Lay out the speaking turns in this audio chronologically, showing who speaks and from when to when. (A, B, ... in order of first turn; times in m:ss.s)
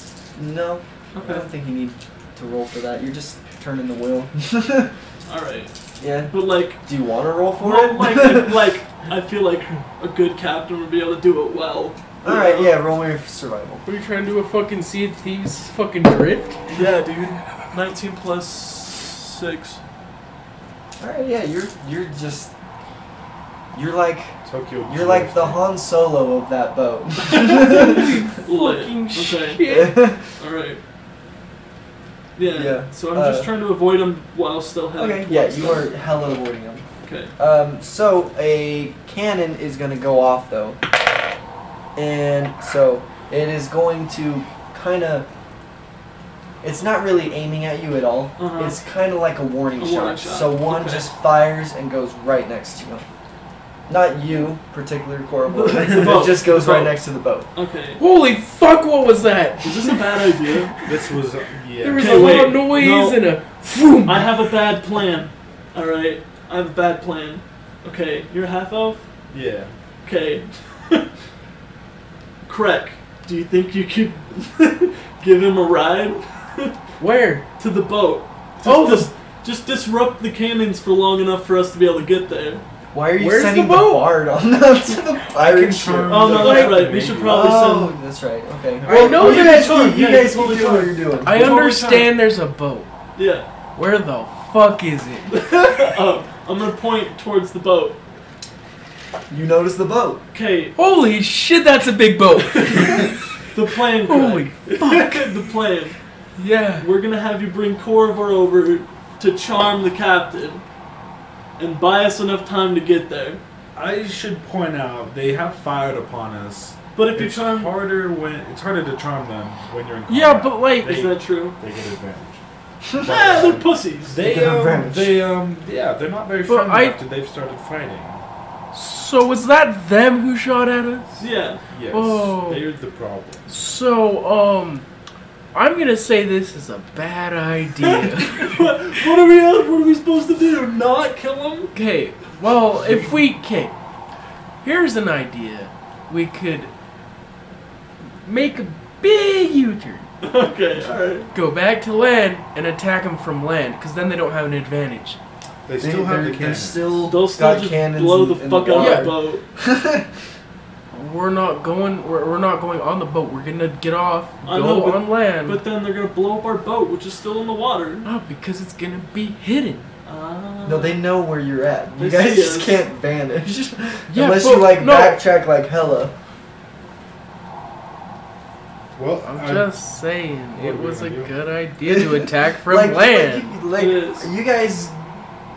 0:00.4-0:04.9 A
0:01.1-0:01.5 B
0:05.2-0:05.7 B
0:06.0-0:08.6 A
0:06.3-0:06.8 B
0:07.6-0:12.8 B
0:12.2-0:13.9 A
0:13.8-0:16.8 C
0:16.7-0:19.8 B
0:21.0-0:22.5 A
0:23.7-0:28.1 A
0:24.4-0:25.6 D
0:27.3-0:30.8 B
0:27.4-0:30.2 C
0:29.6-0:30.2 A
0:32.4-0:35.9 B
0:32.5-0:33.5 A
0:35.0-0:36.8 A
0:37.0-0:37.3 B
0:37.4-0:40.8 A
0:42.0-0:45.3 A
0:46.6-0:53.1 A
0:48.4-0:48.8 B
0:49.8-0:51.1 B
0:53.9-0:57.5 A
0:55.5-0:58.0 B
0:58.0-1:00.9 C
0:59.6-1:00.8 B
1:00.8-1:02.5 D
1:01.8-1:04.5 C
1:02.0-1:03.3 B
1:04.0-1:09.0 B
1:09.3-1:09.7 D
1:10.0-1:11.1 B
1:12.4-1:16.8 B
1:17.0-1:17.5 C
1:17.6-1:22.6 B
1:18.6-1:19.1 C
1:22.9-1:31.6 A
1:23.2-1:24.3 C
1:25.3-1:27.5 D
1:26.1-1:28.0 B
1:26.3-1:27.0 C
1:28.8-1:29.4 D
1:28.9-1:29.9 C
1:28.9-1:32.2 B
1:31.2-1:32.9 C
1:33.2-1:33.5 B
1:33.8-1:35.5 C
1:35.3-1:38.0 B
1:39.3-1:40.2 A
1:40.3-1:40.8 B
1:40.8-1:43.2 C
1:42.4-1:46.0 B
1:44.0-1:45.5 C
1:46.4-1:46.9 C
1:46.8-1:50.6 B
1:51.6-1:53.4 B
1:53.8-2:02.4 D
1:57.0-1:57.9 B
2:00.1-2:01.0 C
2:00.8-2:01.6 B
2:02.8-2:03.1 A
2:03.0-2:08.2 D
2:03.0-2:04.2 B
2:04.2-2:05.3 A
2:06.5-2:07.0 C
2:08.7-2:11.2 C
2:11.2-2:11.6 B
2:11.7-2:13.4 D
2:11.9-2:12.7 C
2:13.5-2:14.9 C
2:15.5-2:19.0 C
2:17.8-2:21.7 B
2:21.7-2:23.7 C
2:24.6-2:26.7 C
2:28.2-2:30.1 C
2:30.2-2:31.3 B
2:31.3-2:35.2 C
2:35.7-2:37.1 D
2:35.8-2:40.1 A
2:37.1-2:39.4 B
2:38.7-2:39.2 C
2:40.9-2:45.6 C
2:44.4-2:48.1 B
2:48.0-2:49.9 C
2:50.0-2:51.0 B
2:50.6-2:56.2 A
2:52.0-2:52.9 B
2:54.1-2:55.2 C
2:59.0-2:59.8 D
2:59.2-3:03.6 C
3:00.6-3:01.4 D
3:01.8-3:05.0 A
3:03.7-3:04.3 B